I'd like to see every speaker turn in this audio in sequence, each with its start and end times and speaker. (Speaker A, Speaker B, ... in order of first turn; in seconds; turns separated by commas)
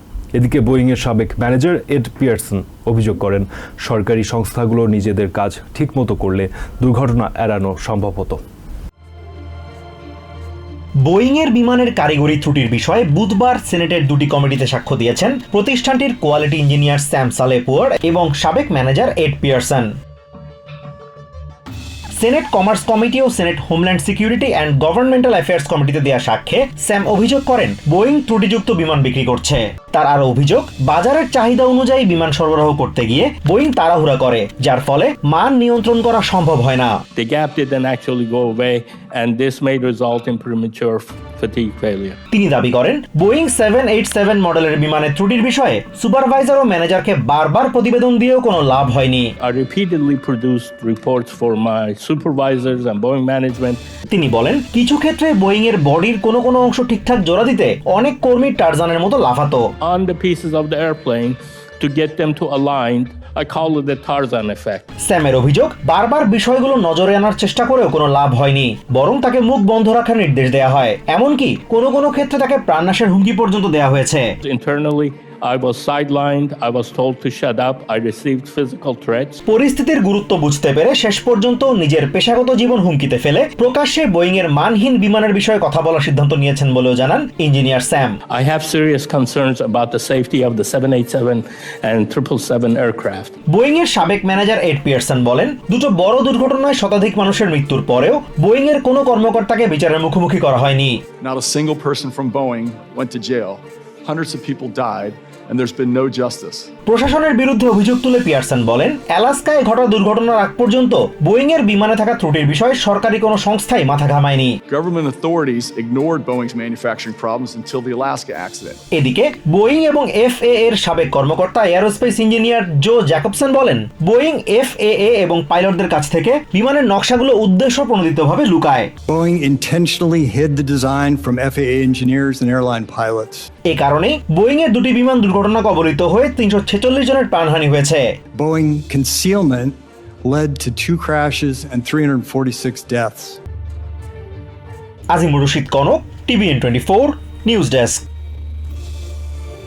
Speaker A: 0.3-8.4, Speaker B: 11.1-19.9, Speaker B: 22.2-37.0, Speaker C: 37.2-42.2, Speaker B: 42.3-49.3, Speaker C: 49.4-53.8, Speaker B: 54.1-59.6, Speaker C: 59.8-64.8, Speaker B: 65.0-74.3, Speaker C: 74.4-79.4, Speaker B: 79.5-88.2, Speaker C: 88.3-93.3, Speaker B: 93.5-101.0, Speaker D: 101.2-106.7, Speaker B: 106.9-114.6, Speaker D: 114.7-118.8, Speaker B: 118.9-128.9, Speaker E: 129.1-133.5, Speaker B: 133.7-138.1, Speaker E: 138.3-143.4, Speaker B: 145.1-148.1